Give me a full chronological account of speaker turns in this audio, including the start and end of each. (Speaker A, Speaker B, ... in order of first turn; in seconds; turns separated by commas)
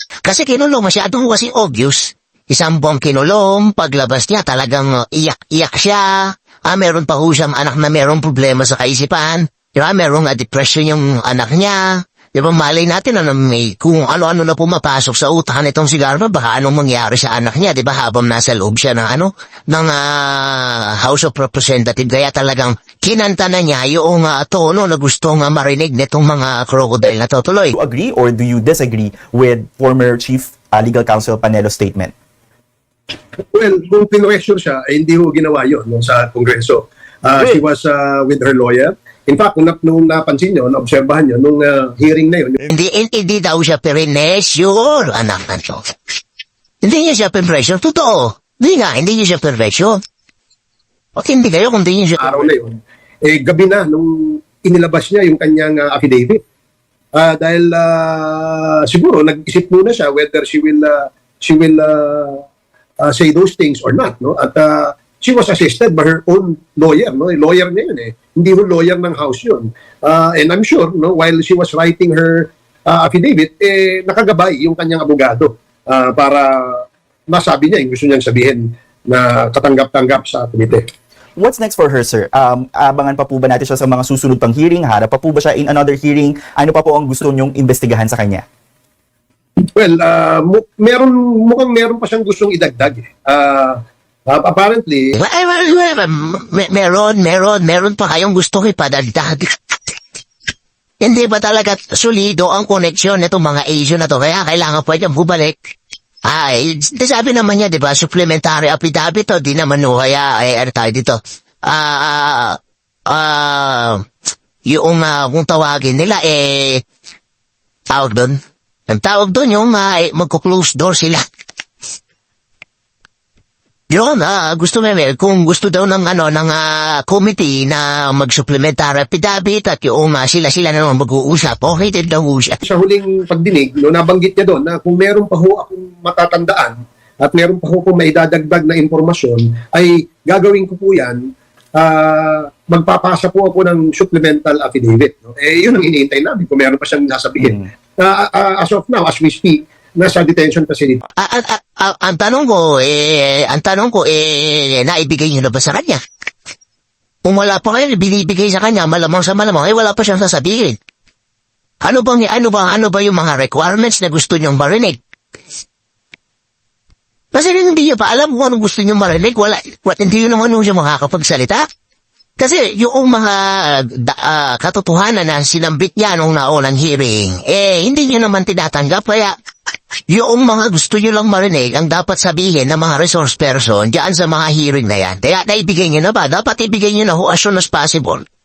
Speaker A: 0.2-27.7, Speaker B: 27.7-32.1, Speaker C: 33.5-42.6, Speaker A: 42.7-45.9, Speaker A: 46.8-50.0, Speaker A: 51.2-52.4, Speaker C: 52.2-56.4, Speaker C: 57.1-62.4, Speaker C: 63.0-80.9, Speaker B: 81.4-88.4, Speaker C: 89.6-95.1, Speaker A: 95.1-99.5, Speaker A: 101.0-105.6, Speaker A: 106.2-114.0, Speaker A: 114.7-116.8, Speaker A: 117.9-121.2, Speaker A: 123.9-132.6, Speaker C: 132.6-151.0, Speaker A: 151.2-156.0, Speaker A: 157.2-160.8, Speaker A: 161.8-165.0, Speaker A: 167.3-171.7, Speaker A: 172.4-179.3, Speaker A: 180.1-188.2